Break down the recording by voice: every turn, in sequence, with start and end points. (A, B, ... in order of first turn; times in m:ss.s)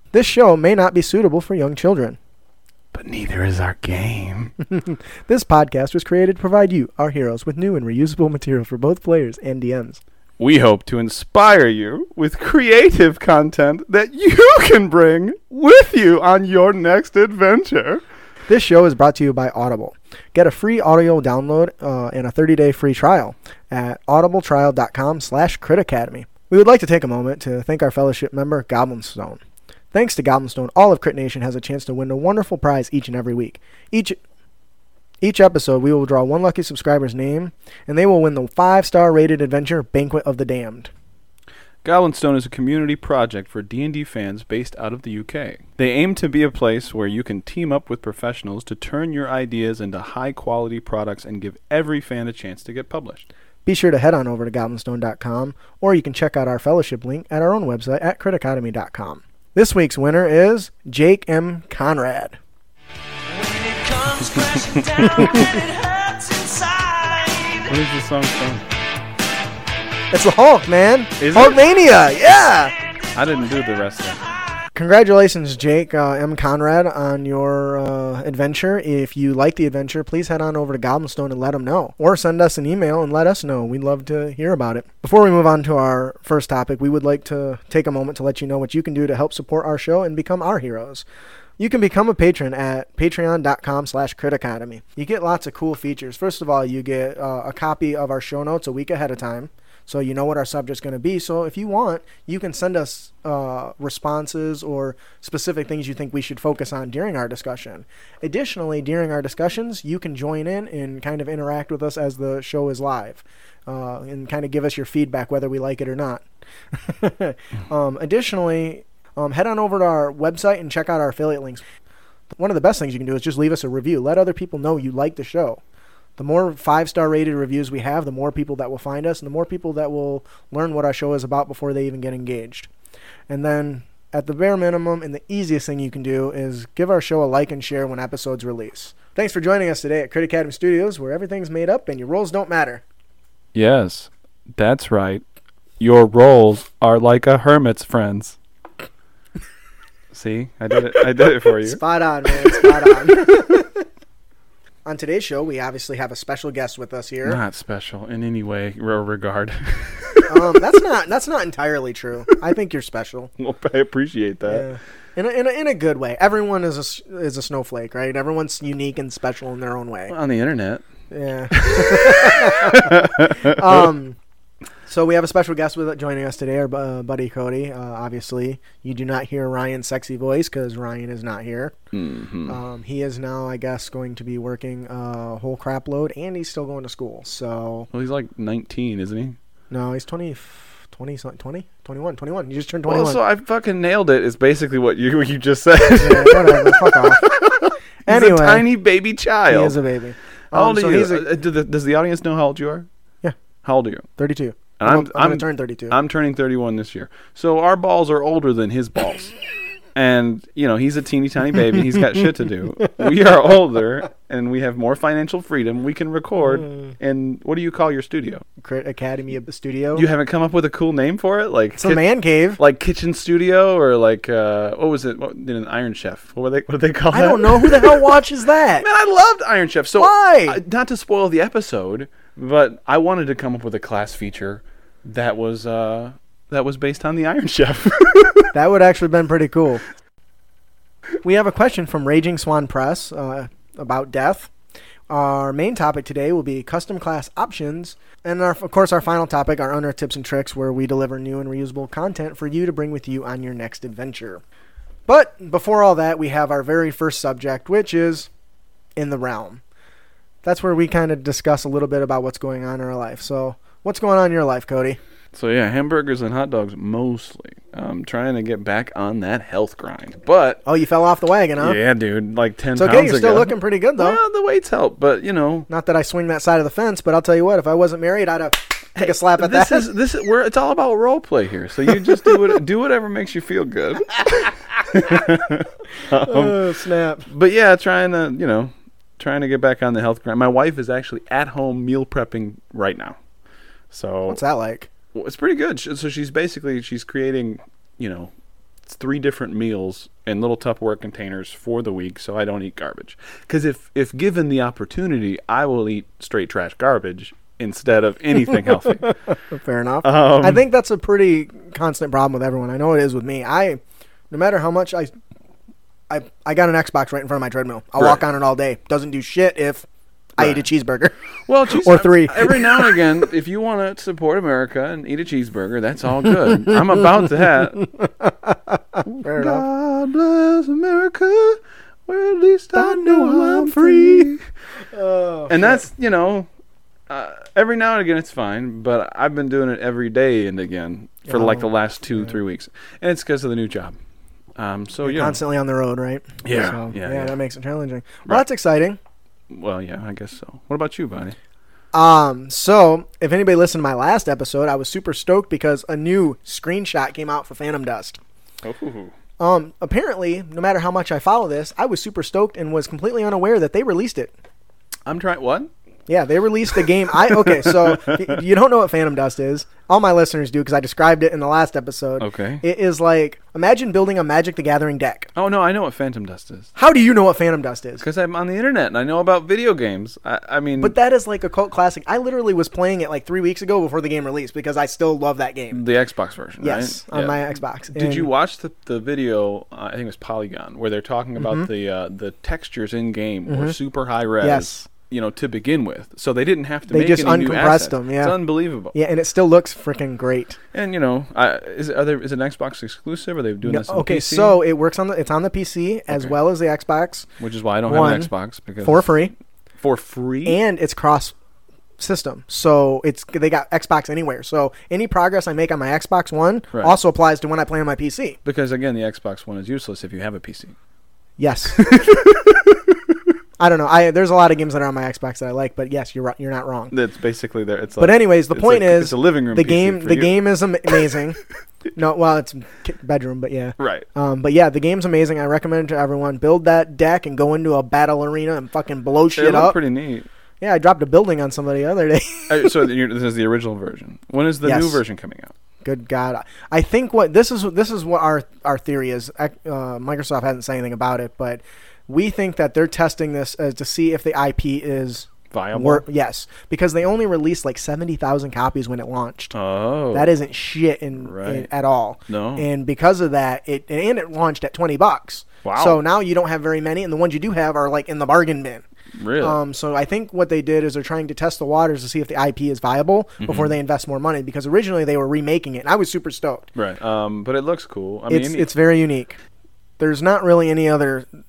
0:00.1-0:02.2 A
0:02.9-0:04.5 B
0:04.7-0:10.0 A
0:10.4-0:18.0 B
0:18.5-0:29.4 A
0:29.9-0:34.2 A
0:35.2-0:40.9 A
0:41.8-0:53.3 B
0:53.6-1:02.4 A
1:03.3-1:07.7 C
1:05.0-1:05.5 A
1:05.1-1:05.4 B
1:07.6-1:08.6 B
1:10.1-1:12.7 A
1:11.2-1:11.6 B
1:13.1-1:14.2 B
1:14.7-1:31.0 A
1:31.6-1:56.2 A
1:56.8-2:01.6 A
2:02.3-2:05.6 A
2:06.2-2:12.7 A
2:13.3-2:22.8 A
2:23.5-2:25.2 B
2:25.8-2:28.4 B
2:30.1-2:31.8 B
2:31.6-2:33.8 A
2:34.8-2:37.4 A
2:37.2-2:40.6 B
2:40.3-2:43.3 A
2:43.4-2:44.6 B
2:44.5-2:50.1 A
2:50.1-2:50.8 B
2:51.1-2:54.2 A
2:51.5-2:53.9 B
2:54.8-3:01.7 A
3:01.9-3:02.6 B
3:02.4-3:07.9 A
3:07.9-3:09.4 B
3:09.7-3:13.2 A
3:12.9-3:19.8 B
3:16.0-3:17.3 A
3:18.0-3:18.7 A
3:19.5-3:21.2 A
3:20.5-3:22.9 B
3:23.6-3:24.1 B
3:24.2-3:26.0 A
3:24.8-3:29.3 B
3:29.9-3:38.4 B
3:36.5-3:36.9 A
3:38.6-3:40.0 A
3:39.9-3:42.0 B
3:41.8-3:42.6 A
3:42.6-3:48.2 B
3:47.1-3:48.8 A
3:48.8-3:58.5 B
3:50.0-3:50.6 A
3:58.5-3:59.8 A
4:01.2-4:04.5 A
4:05.1-4:14.4 A
4:15.1-4:18.3 A
4:19.0-4:19.6 A
4:20.4-4:25.0 A
4:25.3-4:30.6 B
4:30.6-4:31.8 A
4:31.6-4:35.7 B
4:32.8-4:34.2 A
4:35.7-4:39.9 A
4:39.0-4:46.6 B
4:46.1-4:47.3 A
4:47.3-4:53.2 B
4:53.9-4:54.4 B
4:54.3-4:54.9 A
4:55.1-4:58.3 B
4:58.8-5:09.1 B
5:08.8-5:13.8 A
5:10.0-5:10.6 B
5:14.3-5:15.1 A
5:16.1-5:21.1 A
5:21.5-5:27.8 B
5:21.7-5:23.1 A
5:27.9-5:29.6 A
5:29.0-5:34.4 B
5:32.7-5:34.3 A
5:34.9-5:35.8 A
5:35.5-5:36.5 B
5:37.1-5:44.0 B
5:41.2-5:42.3 A
5:44.6-5:45.4 B
5:45.0-5:49.0 A
5:46.4-5:47.4 B
5:49.5-5:51.4 B
5:51.9-5:58.2 A
5:58.6-5:59.1 B
5:59.4-6:04.3 A
6:05.0-6:05.7 B
6:06.1-6:15.3 A
6:07.1-6:08.4 B
6:12.2-6:12.6 B
6:15.3-6:16.7 B
6:16.8-6:18.0 A
6:18.0-6:21.0 B
6:20.8-6:25.8 A
6:25.7-6:38.9 B
6:26.6-6:28.3 A
6:31.4-6:31.7 A
6:33.5-6:33.7 A
6:34.4-6:34.9 A
6:36.9-6:38.4 A
6:38.9-6:40.6 A
6:40.7-6:44.6 B
6:43.6-6:47.3 A
6:46.1-6:46.3 B
6:47.4-6:49.1 B
6:47.9-6:48.3 A
6:48.8-6:49.3 A
6:49.8-6:50.6 B
6:50.4-6:51.3 A
6:52.0-6:58.4 A
6:58.4-7:00.8 B
7:01.4-7:02.3 A
7:01.8-7:02.2 B
7:03.6-7:06.9 A
7:06.9-7:10.3 B
7:08.0-7:11.4 A
7:11.9-7:19.8 A
7:13.8-7:14.1 B
7:19.4-7:20.3 B
7:20.6-7:22.9 A
7:22.5-7:25.5 B
7:24.6-7:25.0 A
7:25.8-7:39.5 A
7:35.5-7:36.0 B
7:39.5-7:40.3 B
7:40.1-7:48.8 A
7:41.2-7:41.7 B
7:42.3-7:42.7 B
7:45.6-7:46.0 B
7:49.2-7:49.6 B
7:49.4-7:56.7 A
7:53.4-7:53.7 B
7:56.7-7:58.7 B
7:58.3-7:59.4 A
8:00.0-8:01.3 A